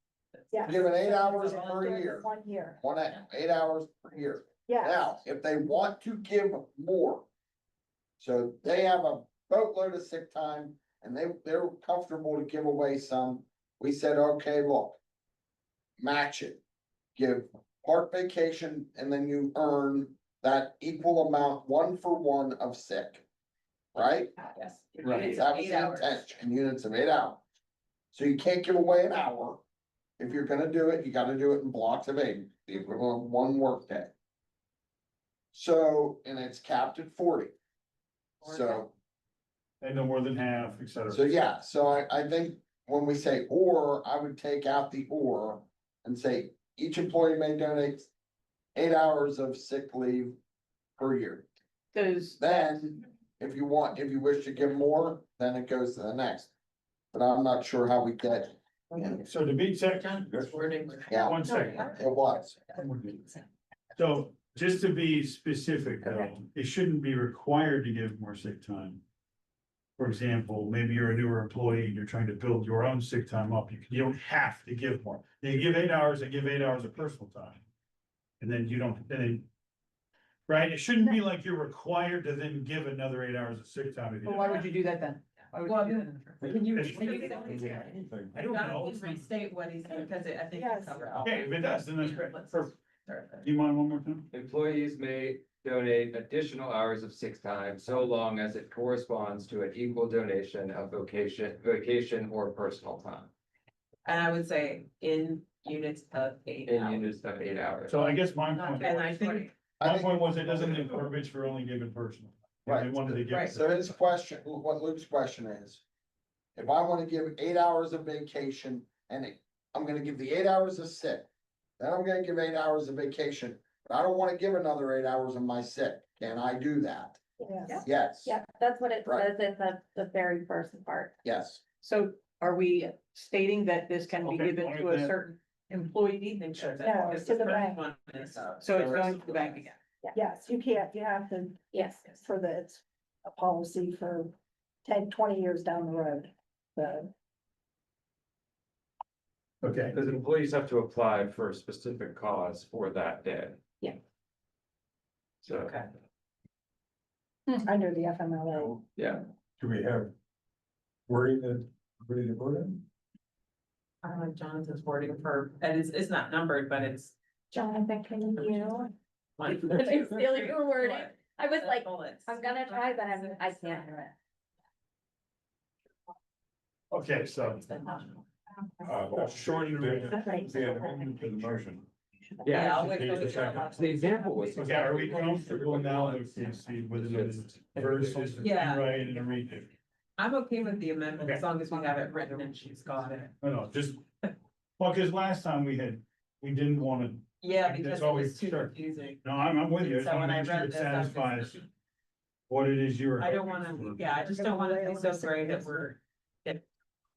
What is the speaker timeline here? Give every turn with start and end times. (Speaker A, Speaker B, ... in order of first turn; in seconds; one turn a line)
Speaker A: 0.4-1.8
Speaker B: 0.5-2.8
Speaker C: 0.7-7.3
Speaker B: 4.7-5.2
Speaker C: 8.2-15.0
Speaker C: 16.0-16.6
Speaker C: 17.2-23.3
Speaker C: 23.9-24.4
Speaker A: 24.4-26.2
Speaker D: 25.0-25.3
Speaker C: 25.1-27.4
Speaker C: 28.1-29.6
Speaker C: 30.2-34.1
Speaker C: 35.5-37.5
Speaker A: 38.4-38.8
Speaker C: 38.4-38.9
Speaker D: 39.8-41.3
Speaker C: 41.1-48.1
Speaker C: 48.8-50.4
Speaker C: 51.0-51.5
Speaker E: 51.9-52.8
Speaker C: 52.4-56.5
Speaker C: 57.1-59.3
Speaker D: 59.2-60.5
Speaker A: 60.0-61.9
Speaker C: 61.1-62.6
Speaker D: 61.1-62.0
Speaker D: 62.8-63.3
Speaker D: 64.0-69.0
Speaker F: 66.0-66.3
Speaker D: 70.0-77.6
Speaker D: 78.4-79.5
Speaker D: 80.5-84.7
Speaker E: 84.2-86.5
Speaker A: 85.6-93.5
Speaker G: 86.4-88.3
Speaker D: 86.7-87.7
Speaker D: 88.3-89.3
Speaker B: 90.5-91.2
Speaker D: 91.2-92.7
Speaker D: 93.4-94.3
Speaker H: 94.3-103.3
Speaker A: 104.0-107.1
Speaker H: 106.7-108.0
Speaker D: 107.9-113.9
Speaker A: 108.3-109.5
Speaker C: 109.8-110.9
Speaker C: 112.7-115.8
Speaker A: 113.3-113.6
Speaker C: 116.6-121.3
Speaker C: 121.8-127.2
Speaker B: 127.4-127.8
Speaker F: 127.7-131.1
Speaker C: 127.8-128.4
Speaker C: 131.2-131.6
Speaker E: 131.8-136.6
Speaker D: 134.2-135.2
Speaker A: 136.4-139.7
Speaker B: 136.8-137.8
Speaker E: 138.6-139.8
Speaker B: 140.1-147.1
Speaker F: 141.7-142.2
Speaker D: 149.6-150.0
Speaker H: 149.9-153.6
Speaker H: 155.4-155.7
Speaker A: 155.5-155.9
Speaker B: 157.6-158.8
Speaker H: 159.0-159.2
Speaker G: 159.6-160.1
Speaker G: 161.1-162.8
Speaker A: 164.0-167.2
Speaker F: 167.5-168.9
Speaker A: 168.4-168.8
Speaker A: 169.4-173.9
Speaker F: 169.5-174.1
Speaker D: 176.9-177.7
Speaker A: 177.7-178.2
Speaker G: 178.8-181.9
Speaker D: 179.1-181.5
Speaker H: 182.4-188.3
Speaker A: 182.5-185.3
Speaker D: 182.6-183.8
Speaker D: 184.5-189.7
Speaker A: 188.4-188.9
Speaker A: 190.2-193.3
Speaker D: 193.4-194.0
Speaker D: 194.8-201.6
Speaker A: 197.4-201.7
Speaker D: 202.5-204.3
Speaker A: 203.2-206.7
Speaker B: 204.1-205.9